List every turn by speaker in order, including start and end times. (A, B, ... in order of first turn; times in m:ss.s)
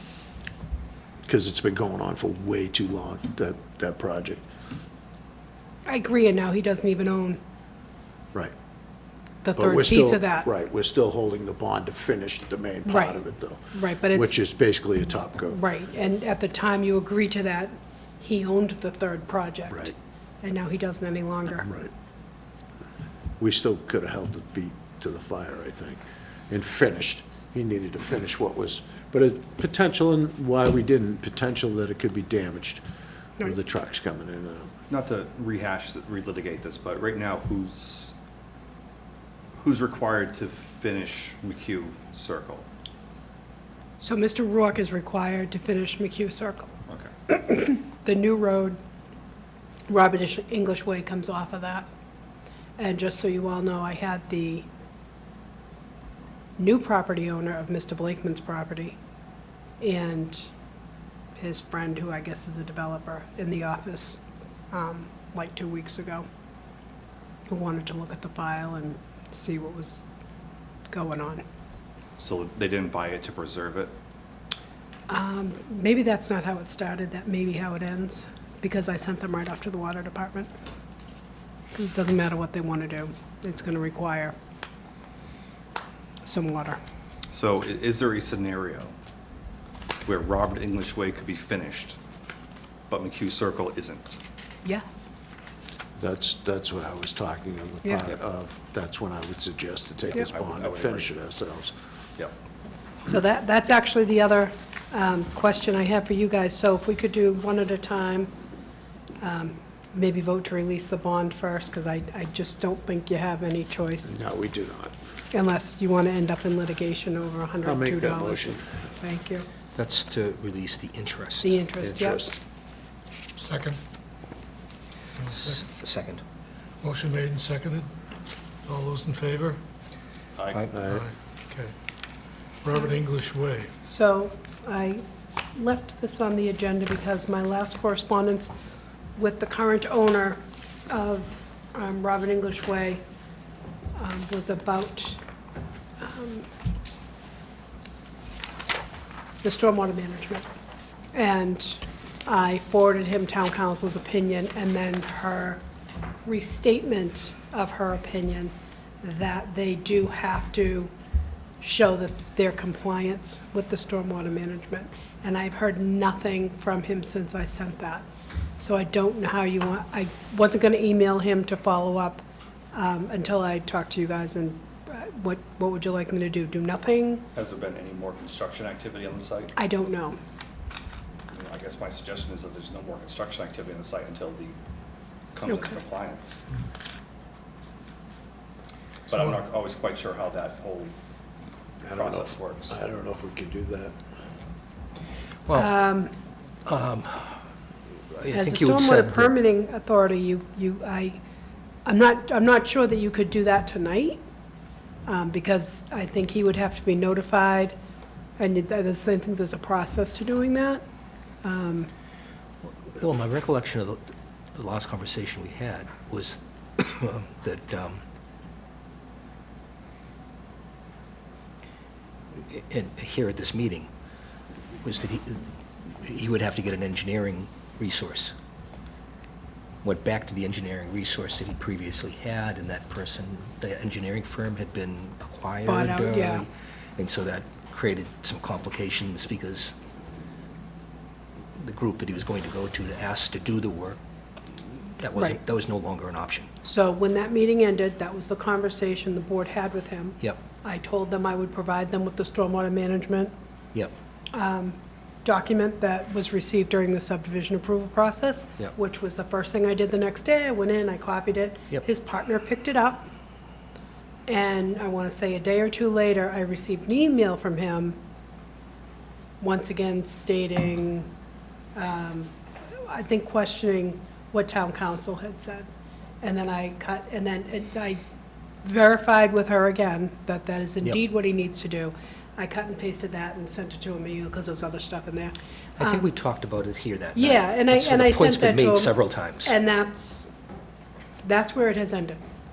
0:01.3-0:04.5 A
0:05.9-0:07.4 B
0:09.4-0:10.5 B
0:09.6-0:15.6 A
0:12.8-0:14.4 B
0:15.5-0:21.7 B
0:21.6-0:21.9 A
0:23.4-0:32.8 A
0:33.4-0:34.7 A
0:34.9-0:38.1 C
0:39.6-0:42.7 C
0:44.0-0:46.7 B
0:47.3-0:48.8 B
0:49.9-0:51.9 B
0:52.8-0:54.7 B
0:56.6-0:59.0 B
0:59.8-1:00.5 B
1:01.4-1:06.3 B
1:07.5-1:10.1 B
1:10.9-1:11.4 B
1:12.2-1:14.0 C
1:15.1-1:20.5 B
1:21.7-1:24.4 B
1:26.2-1:26.8 B
1:27.3-1:28.9 C
1:30.0-1:32.0 C
1:32.9-1:34.2 C
1:34.6-1:35.1 B
1:36.0-1:41.8 A
1:40.1-1:41.1 C
1:43.0-1:48.3 B
1:49.2-1:54.2 B
1:54.0-1:55.0 A
1:55.3-1:59.5 B
1:57.6-1:58.6 A
1:59.8-2:01.5 D
2:01.4-2:02.3 B
2:01.8-2:02.4 A
2:03.4-2:03.8 E
2:05.2-2:05.6 E
2:05.3-2:06.2 D
2:06.8-2:07.9 E
2:08.7-2:09.6 E
2:10.3-2:10.7 C
2:10.7-2:11.1 A
2:10.8-2:11.8 E
2:12.6-2:13.7 E
2:13.8-2:15.0 B
2:15.5-2:18.5 B
2:19.2-2:23.0 B
2:24.0-2:25.2 B
2:26.0-2:26.5 B
2:29.4-2:30.5 B
2:31.1-2:35.6 B
2:36.2-2:40.9 B
2:41.6-2:48.1 B
2:48.6-2:57.3 B
2:57.3-2:59.5 C
2:59.6-3:00.2 B
3:01.3-3:04.6 C
3:05.3-3:06.4 C
3:05.4-3:05.8 B
3:09.1-3:10.9 C
3:11.8-3:14.0 A
3:11.9-3:12.8 C
3:15.5-3:15.8 D
3:15.5-3:16.1 B
3:16.7-3:17.4 D
3:18.1-3:19.3 D
3:18.3-3:21.2 B
3:21.8-3:24.2 B
3:25.0-3:27.8 B
3:28.4-3:30.8 B
3:31.4-3:31.9 B
3:32.8-3:38.0 D
3:42.3-3:43.9 D
3:44.8-3:48.3 D
3:49.8-3:59.8 D
3:55.7-3:56.4 B
4:01.6-4:06.5 D
4:06.6-4:13.3 B
4:14.3-4:23.1 B
4:24.3-4:28.0 B
4:29.4-4:31.1 B
4:31.8-4:35.7 B
4:36.2-4:38.0 B
4:38.6-4:46.0 B
4:45.8-4:49.6 D
4:47.1-4:50.3 B
4:51.2-4:52.2 B